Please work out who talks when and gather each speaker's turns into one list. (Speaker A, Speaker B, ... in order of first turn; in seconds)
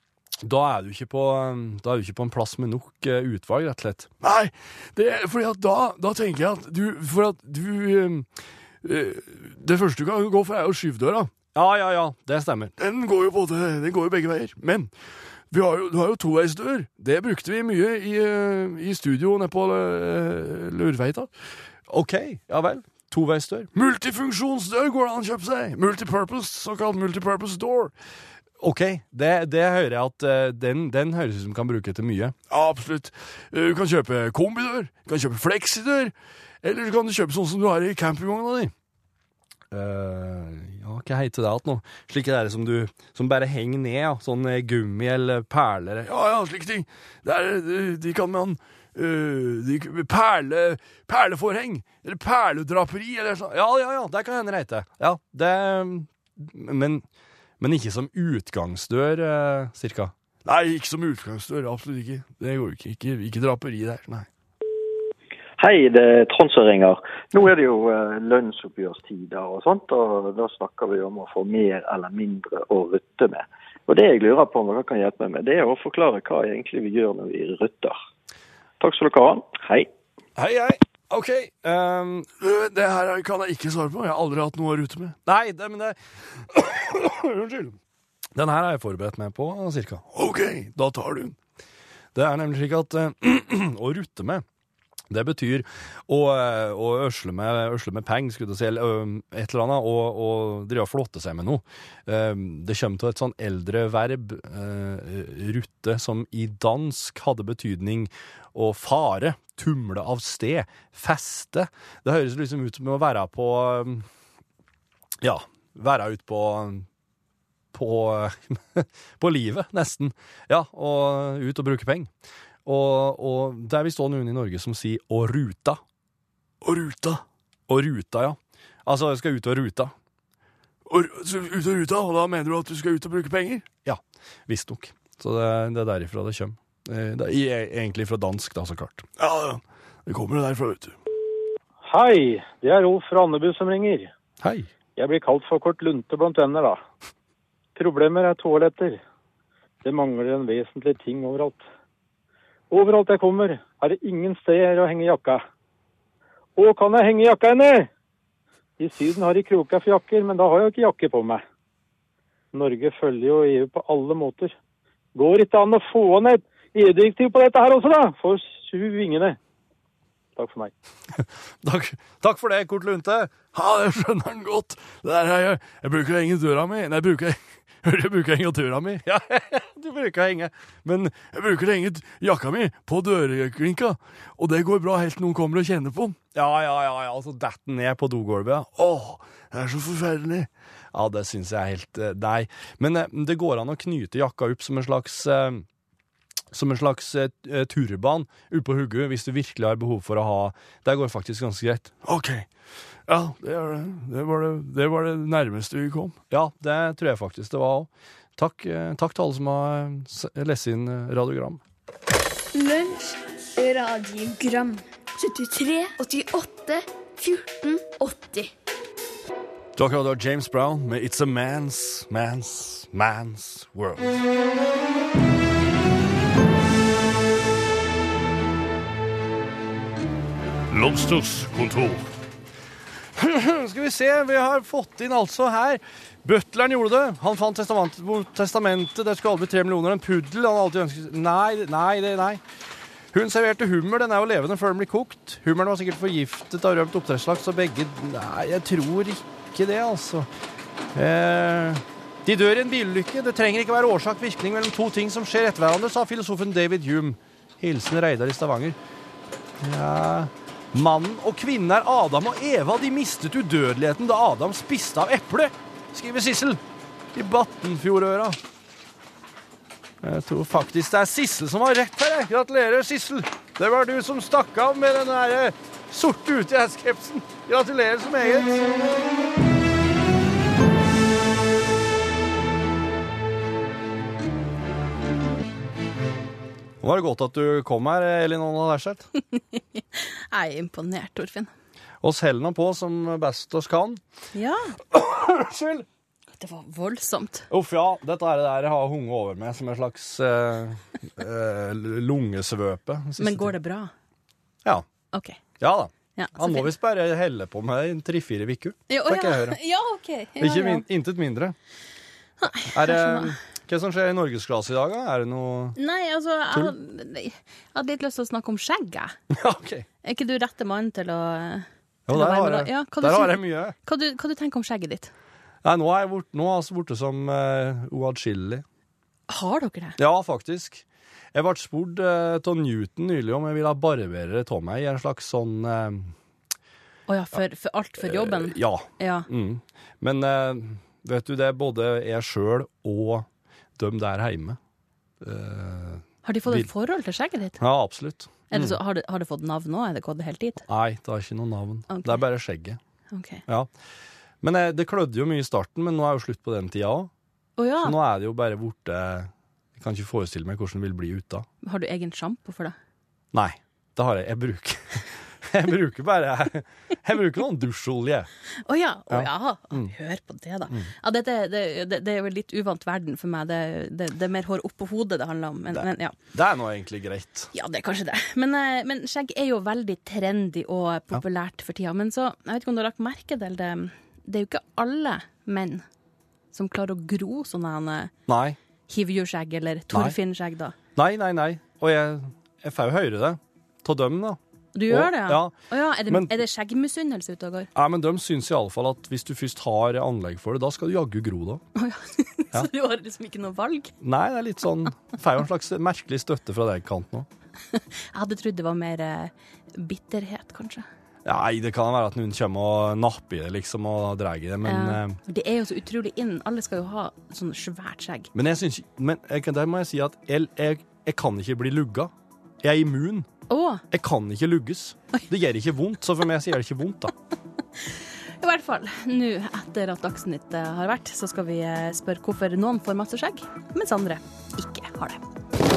Speaker A: 0.4-4.1, 11.5-12.7, 21.9-23.7, 28.6-32.3, 39.7-46.0, 53.5-57.0, 57.6-60.1, 80.4-82.3, 85.2-86.0, 87.2-87.7, 88.3-90.0, 92.1-94.4, 95.1-114.0, 115.2-116.8, 117.7-122.1, 122.7-125.8, 127.7-129.9, 133.8-139.0, 144.4-144.7, 171.6-173.3, 179.1-180.9, 186.3-188.7, 190.9-195.6, 196.5-201.9, 206.3-211.6, 219.8-224.1, 233.3-242.4, 243.1-250.3, 250.9-258.8, 259.6-266.6, 267.1-268.4, 270.0-278.6, 286.8-289.0, 292.0-294.0, 295.3-295.8, 297.5-303.5, 305.6-309.6, 310.4-311.5, 312.7-315.8, 319.4-319.8, 322.1-323.7, 325.6-328.6, 330.0-330.8, 331.3-336.1, 338.1-343.2, 343.8-344.6, 345.2-346.7, 347.6-348.8, 350.7-352.8, 354.4-357.1, 357.8-361.4, 363.3-365.0, 365.5-368.3, 369.1-369.9, 375.7-377.5, 388.3-388.6, 391.0-395.5, 396.1-396.4, 397.8-401.6, 404.0-407.2, 411.2-415.1, 418.4-422.1, 422.6-423.3, 423.9-427.1
Speaker B: 4.2-8.2, 8.8-11.3, 12.8-14.9, 15.5-21.3, 23.7-27.9, 32.5-38.7, 46.0-53.5, 60.4-64.3, 82.4-85.2, 90.1-91.3, 126.6-127.2, 130.9-133.7, 139.2-140.9, 173.5-179.0, 181.1-186.2, 188.8-190.5, 202.0-202.5, 203.1-206.2, 230.7-232.0
Speaker C: 65.6-78.0, 78.8-79.9
Speaker D: 141.8-144.1, 144.9-146.8, 147.7-149.0, 149.8-151.6, 152.7-155.4, 156.6-157.9, 158.8-161.4, 162.5-164.6, 165.1-169.4, 170.3-170.7
Speaker E: 212.5-218.5
Speaker F: 289.3-291.5, 294.3-294.8, 296.4-297.5, 303.2-303.9, 305.1-305.4, 306.1-306.7, 308.9-310.9, 312.4-313.4, 315.7-319.1, 320.0-325.1, 329.3-330.0, 337.1-339.3, 346.2-347.6, 348.5-350.6, 351.9-352.2, 353.1-353.4, 357.6-358.0, 361.6-362.7, 368.6-376.2, 377.5-385.8, 386.5-388.1, 388.9-390.7, 394.7-397.7, 401.7-403.9, 407.7-410.8, 414.6-418.3, 423.5-423.8, 427.8-435.2